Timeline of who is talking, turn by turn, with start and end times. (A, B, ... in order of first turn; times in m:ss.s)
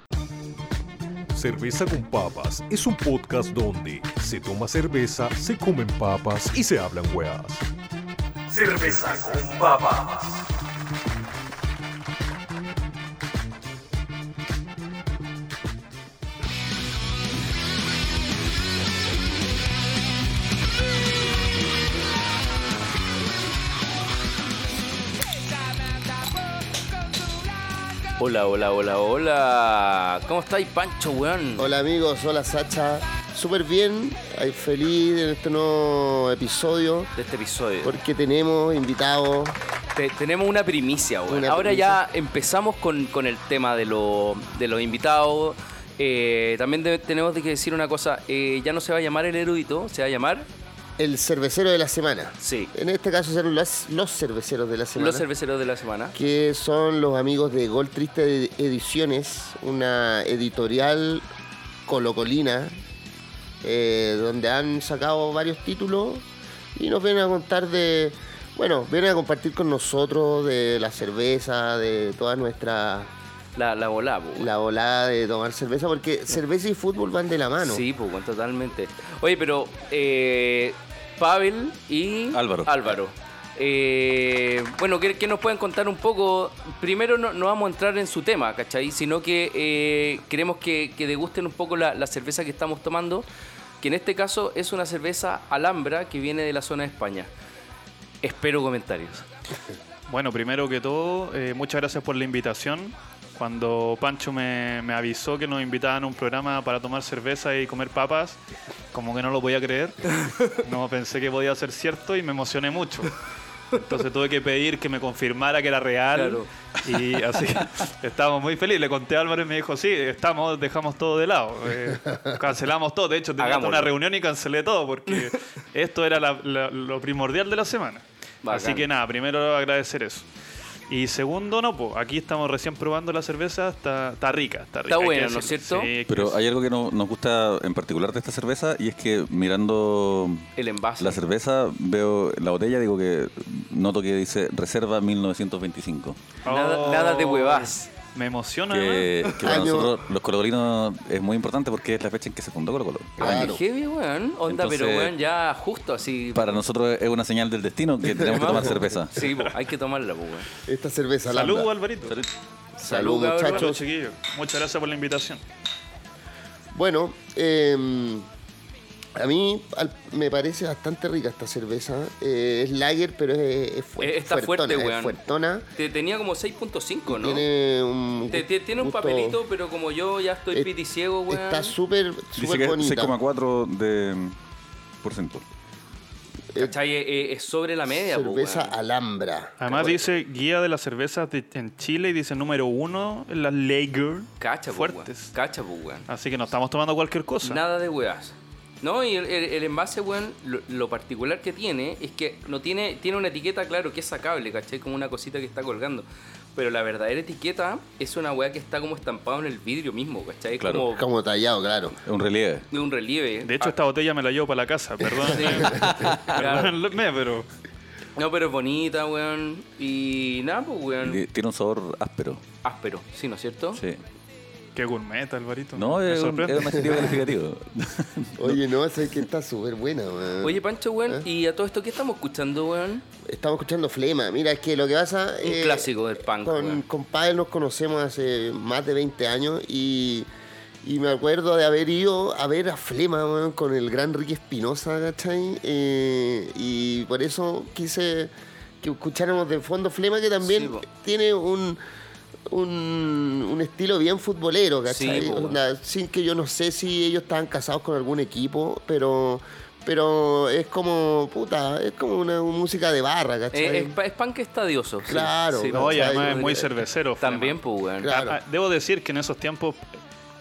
0:01.3-0:07.7 A
0:08.5-0:10.4 A
0:28.2-0:31.7 B
0:31.6-0:37.1 C
0:37.2-0:37.9 B
0:37.8-0:39.6 C
0:39.9-0:50.5 B
0:41.3-0:42.0 C
0:51.0-0:55.3 C
0:52.4-0:52.7 B
0:55.0-0:56.2 B
0:56.1-1:01.2 C
1:01.8-1:02.7 C
1:03.6-1:13.1 C
1:13.6-1:14.5 B
1:14.4-1:17.8 C
1:17.6-1:33.3 B
1:22.3-1:22.8 D
1:33.8-1:37.3 B
1:38.2-1:39.2 B
1:40.1-1:48.4 E
1:48.9-1:53.1 E
1:50.2-1:50.5 B
1:53.7-2:10.2 E
1:56.1-1:56.5 B
2:03.4-2:03.9 B
2:08.4-2:08.9 B
2:10.9-2:16.4 E
2:14.9-2:15.9 B
2:16.1-2:20.5 D
2:20.6-2:21.2 B
2:21.0-2:26.2 D
2:26.4-2:27.9 B
2:26.4-2:29.2 E
2:28.7-2:33.6 D
2:29.4-2:30.0 C
2:33.2-2:33.6 C
2:33.2-2:36.6 B
2:34.5-2:35.1 D
2:36.3-2:39.2 D
2:38.2-2:40.5 B
2:40.6-2:41.7 C
2:41.3-2:42.2 E
2:42.8-2:43.8 C
2:42.8-2:43.7 B
2:43.4-2:45.4 E
2:46.7-2:48.3 C
2:49.1-2:55.6 C
2:54.0-2:55.2 B
2:55.8-2:57.4 B
2:57.1-2:59.4 C
2:58.3-3:01.8 B
3:01.3-3:03.2 C
3:02.3-3:04.4 D
3:05.0-3:05.4 D
3:06.6-3:08.7 B
3:07.9-3:09.6 C
3:09.6-3:15.3 E
3:09.7-3:10.0 B
3:14.4-3:16.0 B
3:16.1-3:17.6 E
3:17.4-3:31.0 B
3:30.6-3:30.9 D
3:30.9-3:32.0 C
3:32.0-3:32.6 D
3:32.7-3:33.7 B
3:33.4-3:37.5 E
3:35.2-3:36.7 B
3:35.6-3:36.6 D
3:38.2-3:41.2 B
3:41.0-3:42.4 D
3:42.6-3:43.8 B
3:43.7-3:44.0 D
3:44.8-3:47.0 E
3:45.8-3:48.6 D
3:46.8-3:47.3 C
3:48.4-3:51.2 C
3:50.4-3:53.0 B
3:53.2-4:00.3 C
3:55.4-3:56.8 B
4:00.8-4:11.8 C
4:10.4-4:10.8 B
4:12.5-4:24.0 C
4:14.9-4:15.6 B
4:23.5-4:26.6 B
4:25.1-4:26.7 C
4:25.7-4:27.6 E
4:27.2-4:28.1 B
4:28.0-4:28.4 C
4:28.1-4:29.8 E